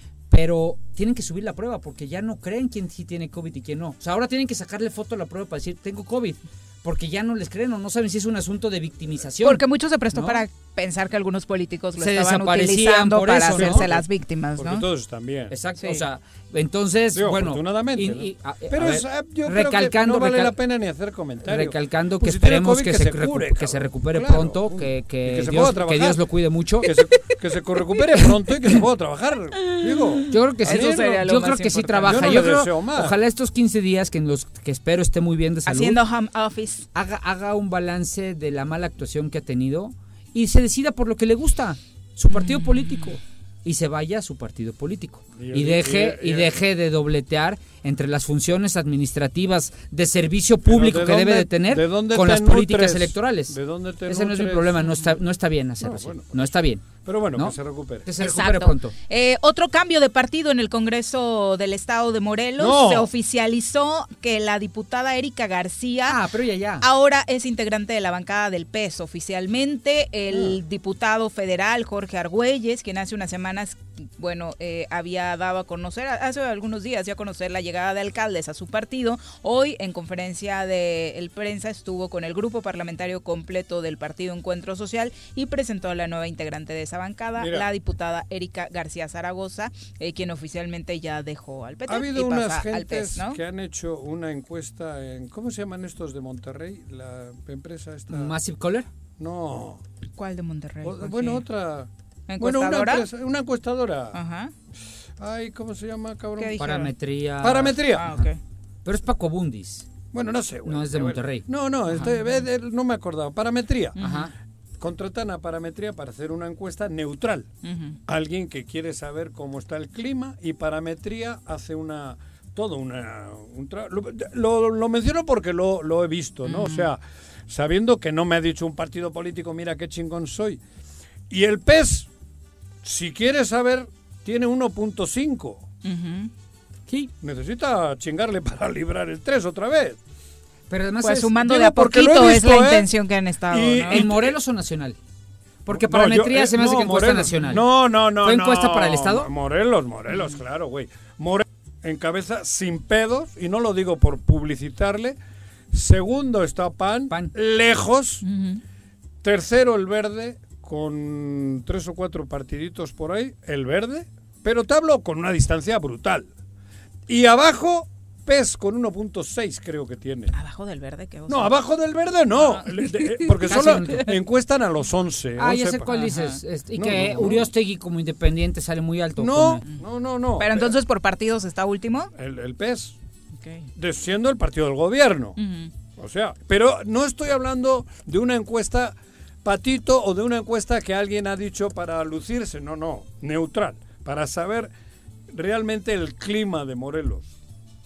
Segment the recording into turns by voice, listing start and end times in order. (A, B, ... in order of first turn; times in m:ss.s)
0:00.3-0:09.6 A
0:09.4-0:14.8 B
0:10.1-0:10.4 A
0:12.0-0:13.9 A
0:13.5-0:14.0 C
0:14.6-0:15.5 C
0:15.5-0:20.5 A
0:17.1-0:26.2 C
0:21.4-0:26.9 A
0:26.8-0:31.3 C
0:30.3-0:36.0 A
0:30.6-0:32.5 B
0:32.0-0:33.2 C
0:35.7-0:36.9 B
0:36.9-0:53.6 A
0:42.3-0:43.1 B
0:45.4-0:46.5 C
0:50.6-0:54.8 C
0:54.1-0:58.9 A
0:55.8-0:58.1 C
0:58.2-1:06.2 B
1:02.6-1:03.1 C
1:06.1-1:06.8 A
1:06.8-1:33.4 B
1:27.4-1:27.7 C
1:31.9-1:38.3 C
1:38.1-1:38.9 A
1:39.2-1:39.8 C
1:40.2-1:41.4 B
1:40.8-1:41.9 C
1:42.3-1:43.1 B
1:42.4-1:44.2 C
1:44.1-1:44.5 B
1:45.2-1:46.6 C
1:46.4-1:46.9 B
1:46.6-1:48.3 A
1:47.4-1:48.1 C
1:47.9-1:48.4 B
1:48.8-1:49.9 A
1:50.1-1:54.0 C
1:50.6-1:51.5 A
1:52.0-1:52.4 B
1:54.0-1:54.3 B
1:54.0-1:54.3 A
1:54.8-1:57.5 C
1:57.6-1:58.0 B
1:58.1-2:10.6 C
2:06.4-2:06.9 B
2:11.3-2:12.1 C
2:12.8-2:15.7 C
2:15.8-2:16.3 B
2:17.2-2:20.0 C
2:20.7-2:21.3 A
2:21.0-2:24.0 B
2:21.4-2:22.8 C
2:23.5-2:24.3 C
2:23.9-2:25.0 A
2:25.6-2:27.6 A
2:25.7-2:35.2 C
2:28.2-2:29.3 A
2:30.1-2:30.4 B
2:35.7-2:38.2 C
2:38.2-2:38.6 B
2:39.2-2:46.3 C
2:47.1-2:50.3 C
2:50.3-2:51.6 B
2:51.3-2:55.9 C
2:52.4-2:53.5 B
2:53.5-2:54.1 A
2:55.4-2:59.6 A
2:55.9-2:56.4 B
2:56.8-2:57.5 C
2:59.2-3:00.7 C
3:00.4-3:02.1 B
3:02.2-3:03.0 C
3:03.4-3:03.7 B
3:03.7-3:05.4 C
3:05.4-3:05.7 B
3:06.0-3:14.7 C
3:15.3-3:17.3 C